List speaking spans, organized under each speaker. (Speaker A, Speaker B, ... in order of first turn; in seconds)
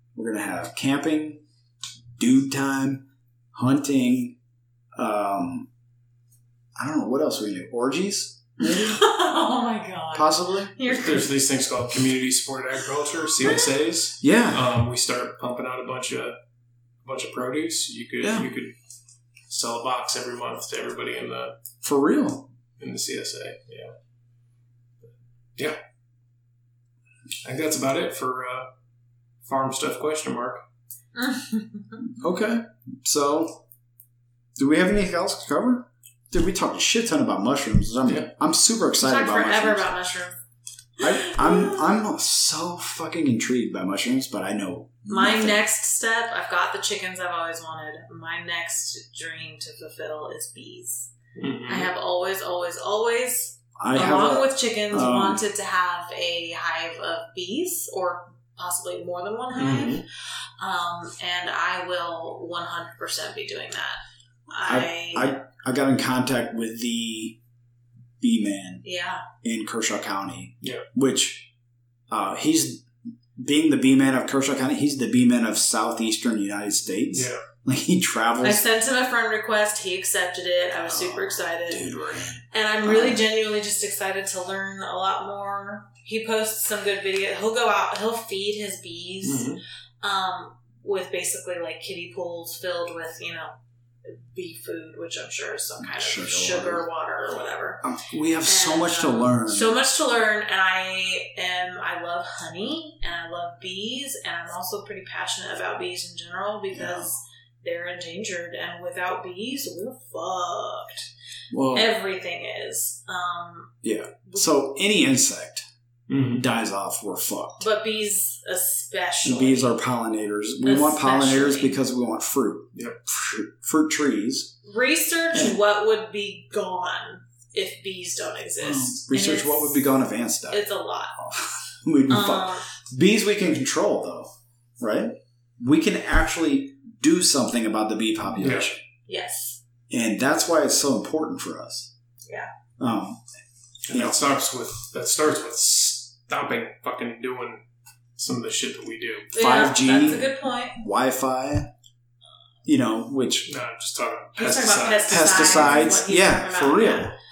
Speaker A: 0.1-1.4, 2.2-4.4, 5.0-5.7, 6.8-9.0, 10.1-10.8, 14.2-14.7, 18.2-18.5, 21.8-22.5, 32.2-33.6, 34.6-39.9, 41.0-45.6, 53.8-55.4, 64.7-67.4, 68.2-68.8, 69.4-71.5, 72.1-78.6, 80.8-83.2, 95.8-96.9, 97.8-99.8, 106.7-107.1, 111.5-111.9, 113.8-115.7, 116.4-117.7, 119.2-124.6, 128.6-138.8, 139.9-141.9, 142.8-143.2, 143.9-144.2, 149.3-151.7, 152.6-153.5, 155.1-157.1
Speaker B: 8.6-11.3, 13.4-13.7, 31.1-32.0, 39.0-40.4, 41.2-41.9, 45.1-51.1, 51.7-60.0, 60.6-65.4, 68.8-69.2, 78.4-81.9, 82.5-97.8, 98.4-111.0, 111.7-113.7, 117.6-119.8, 120.6-121.8, 124.6-129.8, 130.5-131.1, 132.1-132.6, 139.1-139.6, 149.3-150.8, 154.4-157.1
Speaker C: 10.9-16.4, 17.0-18.7, 19.5-21.6, 22.8-23.9, 27.4-28.7, 29.5-30.6, 51.4-51.9, 59.6-60.0, 77.1-77.4, 89.2-89.6, 116.1-116.4, 138.4-138.7, 143.9-147.6, 148.2-149.3, 153.5-156.0